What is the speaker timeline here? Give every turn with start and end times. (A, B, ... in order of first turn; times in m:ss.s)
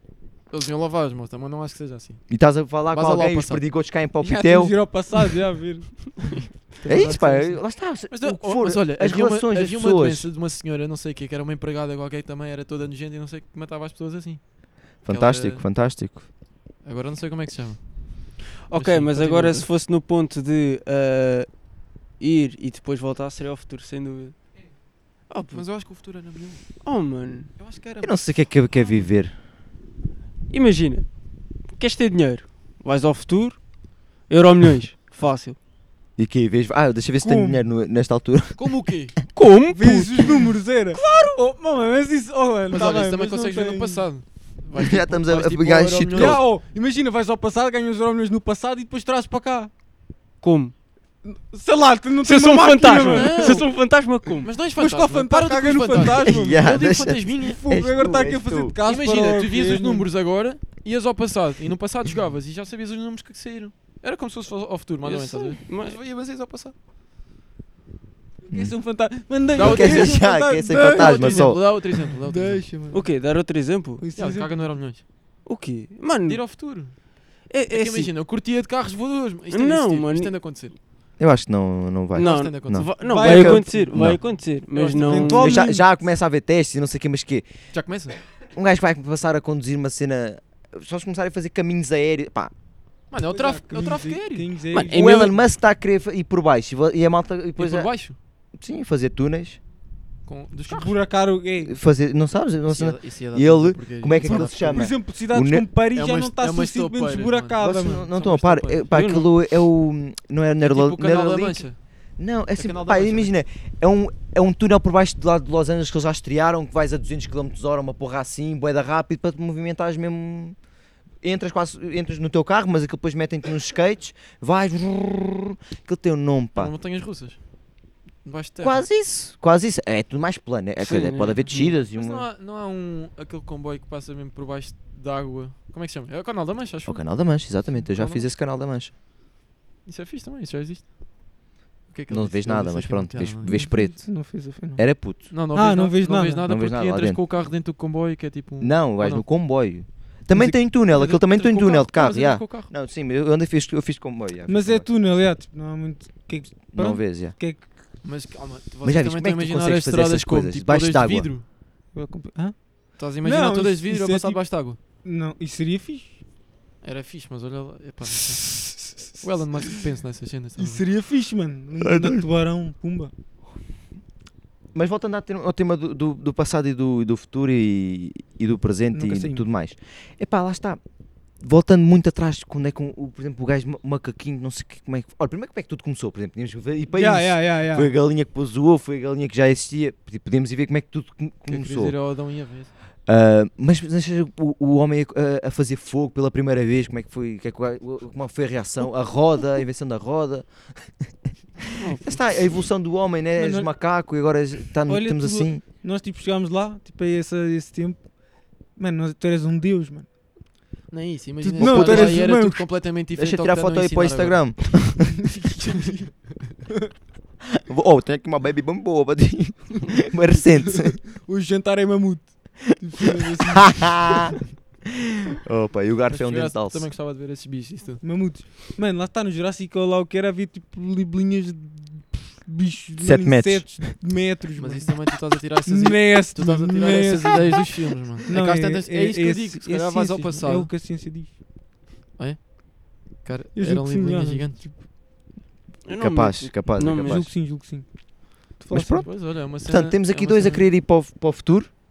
0:00.5-0:02.2 A
0:02.3-0:04.7 B
0:02.9-0:03.6 A
0:04.2-0:06.5 C
0:06.3-0:15.6 A
0:06.8-0:10.3 B
0:15.0-0:16.2 B
0:16.8-0:19.7 A
0:18.7-0:24.4 D
0:25.3-0:25.6 D
0:25.5-0:26.8 A
0:26.8-0:27.5 D
0:27.6-0:28.5 A
0:28.0-0:29.4 B
0:30.5-0:35.6 D
0:36.2-0:38.7 B
0:37.2-0:37.6 C
0:38.6-0:39.1 A
0:39.3-0:40.4 D
0:39.7-0:44.1 C
0:42.7-0:46.4 A
0:44.7-0:46.4 B
0:46.1-0:49.7 C
0:50.4-0:50.7 D
0:51.2-0:53.6 C
0:52.2-0:54.5 D
0:53.0-0:57.6 A
0:54.8-0:56.9 C
0:56.0-0:58.8 B
0:57.4-1:00.1 C
0:58.8-1:06.8 A
1:05.0-1:05.6 C
1:05.7-1:06.0 D
1:08.4-1:13.1 C
1:09.5-1:12.7 A
1:09.6-1:11.6 B
1:12.9-1:14.0 D
1:14.0-1:14.8 C
1:14.2-1:15.0 A
1:15.4-1:16.4 D
1:16.3-1:20.8 A
1:17.5-1:18.1 D
1:19.5-1:20.4 D
1:21.2-1:24.2 B
1:22.1-1:23.0 A
1:22.1-1:25.6 D
1:23.0-1:24.0 C
1:24.7-1:25.6 A
1:24.9-1:25.8 C
1:25.4-1:27.5 B
1:27.7-1:28.2 A
1:28.5-1:32.5 B
1:33.1-1:34.5 A
1:33.3-1:35.3 C
1:34.7-1:35.4 D
1:34.9-1:39.6 B
1:37.6-1:38.2 A
1:40.3-1:41.0 A
1:40.7-1:41.8 C
1:41.6-1:45.6 B
1:42.7-1:45.0 A
1:44.2-1:48.1 C
1:45.9-1:49.0 A
1:47.6-1:51.7 B
1:48.9-1:49.3 D
1:50.6-1:51.8 A
1:52.2-2:00.6 B
1:52.6-1:53.3 A
2:01.2-2:06.7 B
2:06.6-2:07.4 A
2:08.2-2:08.8 A
2:08.6-2:12.3 B
2:10.8-2:11.7 D
2:11.5-2:18.3 A
2:16.9-2:18.9 B
2:19.8-2:20.9 A
2:21.9-2:23.9 A
2:22.1-2:25.3 B
2:23.5-2:26.5 C
2:25.3-2:29.3 A
2:26.4-2:27.2 B
2:28.6-2:34.9 B
2:30.8-2:32.7 A
2:34.5-2:37.6 C
2:36.7-2:37.4 B
2:38.0-2:41.4 A
2:38.8-2:41.3 B
2:41.9-2:46.2 C
2:43.0-2:44.8 A
2:46.8-2:50.8 A
2:50.6-2:53.1 C
2:51.8-2:52.2 B
2:54.7-3:00.8 B
2:58.9-2:59.4 C
3:01.4-3:12.0 B
3:06.9-3:07.9 C
3:11.5-3:12.7 A
3:13.1-3:21.1 B
3:21.8-3:22.2 D
3:21.8-3:25.6 B
3:23.4-3:23.7 C
3:24.9-3:30.1 C
3:30.9-3:34.9 A
3:31.4-3:32.6 C
3:31.6-3:32.3 B
3:33.1-3:35.3 B
3:35.3-3:36.5 C
3:37.6-3:41.0 B
3:40.7-3:44.4 C
3:43.5-3:44.4 B
3:45.3-3:46.9 B
3:46.1-3:48.5 A
3:48.0-3:55.0 C
3:53.0-3:53.9 B
3:54.6-4:00.7 A
3:55.6-4:01.3 C
4:02.2-4:04.6 A
4:03.6-4:04.8 C
4:05.8-4:07.3 D
4:06.0-4:07.3 B
4:07.0-4:09.1 C
4:08.7-4:11.7 B
4:09.0-4:10.7 A